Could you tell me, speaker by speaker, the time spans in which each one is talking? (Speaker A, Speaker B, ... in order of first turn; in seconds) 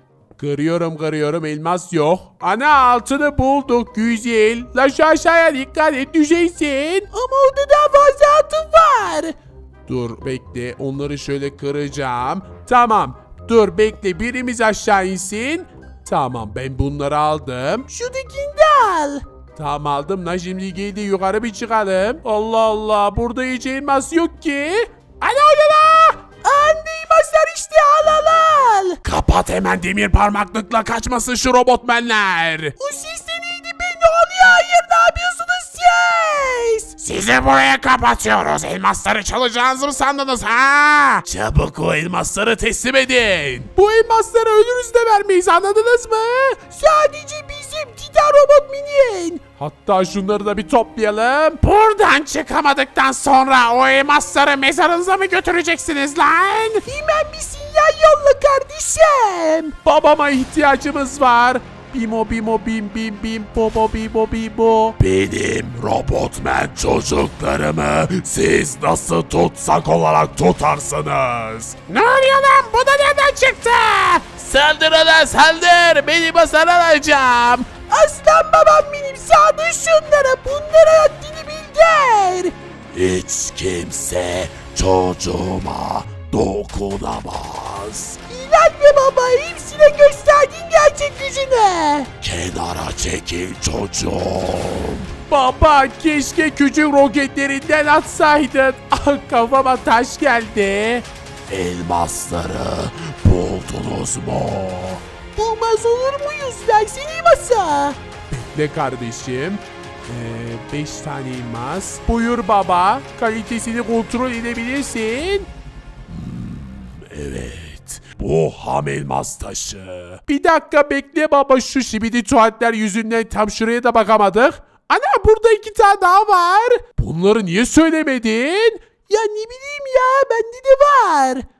Speaker A: 0.4-7.1, 9.9-17.9, 19.6-26.2, 29.0-32.8, 37.0-46.6, 49.6-56.8, 59.8-77.7, 82.9-88.2, 92.2-105.0, 108.3-115.5, 116.1-128.8
Speaker B: 7.1-9.3, 17.9-19.2, 26.4-29.0, 32.8-37.0, 46.7-49.4, 56.8-59.8, 77.9-82.5, 88.3-92.2, 105.3-108.0, 129.1-131.4